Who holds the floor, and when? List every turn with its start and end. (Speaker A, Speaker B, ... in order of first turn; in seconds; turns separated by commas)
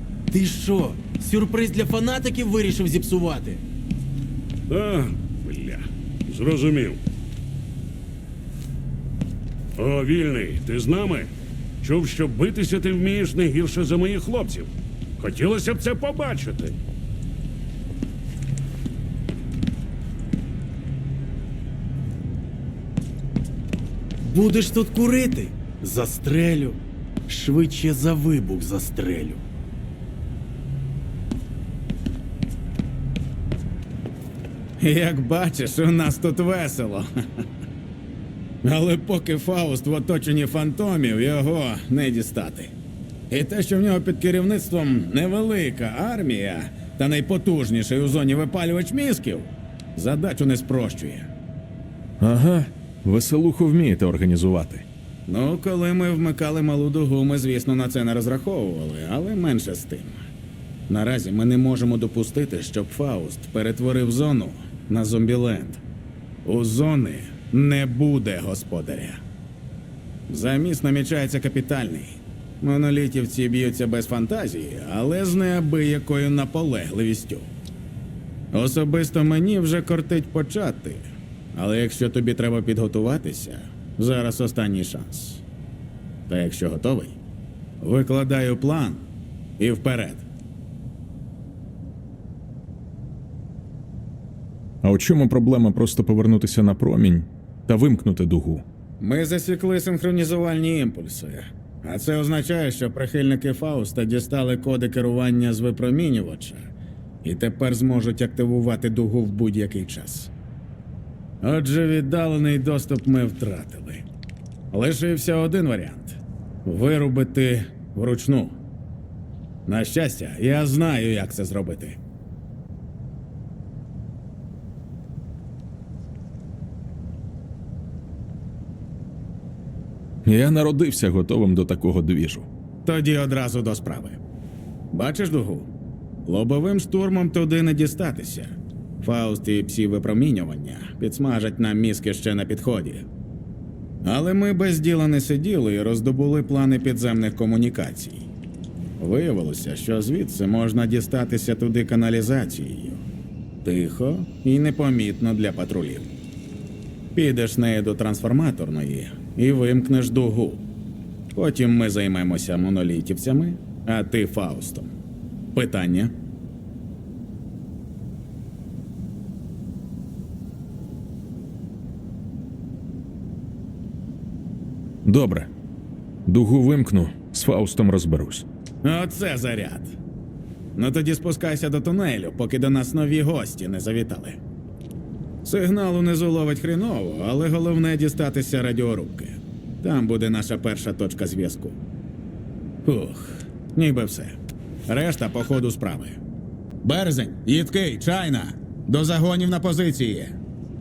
Speaker A: 0.3-3.6, Speaker B: 4.7-7.0, Speaker B: 9.8-11.3, Speaker B: 11.8-16.8, Speaker A: 24.2-29.4, Speaker C: 34.8-37.1, Speaker C: 38.6-42.7, Speaker C: 43.3-51.3, Speaker D: 52.2-54.9, Speaker C: 55.3-60.2, Speaker C: 60.9-65.8, Speaker C: 66.4-69.2, Speaker C: 70.3-77.5, Speaker C: 78.5-85.4, Speaker C: 86.3-87.2, Speaker C: 87.8-89.1, Speaker C: 89.6-90.2, Speaker D: 94.8-98.6, Speaker C: 99.0-106.7, Speaker C: 107.2-110.3, Speaker C: 111.4-114.0, Speaker C: 114.7-118.6, Speaker C: 119.7-122.0, Speaker D: 130.2-132.5, Speaker C: 132.8-134.2, Speaker C: 134.9-135.7, Speaker C: 136.2-143.1, Speaker C: 144.0-148.3, Speaker C: 149.0-153.1, Speaker C: 153.6-156.1, Speaker C: 157.1-160.7, Speaker C: 161.3-165.0, Speaker C: 165.5-166.2, Speaker D: 175.1-175.5, Speaker D: 176.2-178.5, Speaker C: 178.8-179.9, Speaker C: 180.8-184.4, Speaker C: 185.4-191.8, Speaker C: 192.8-194.4, Speaker C: 194.9-196.2, Speaker C: 196.8-200.3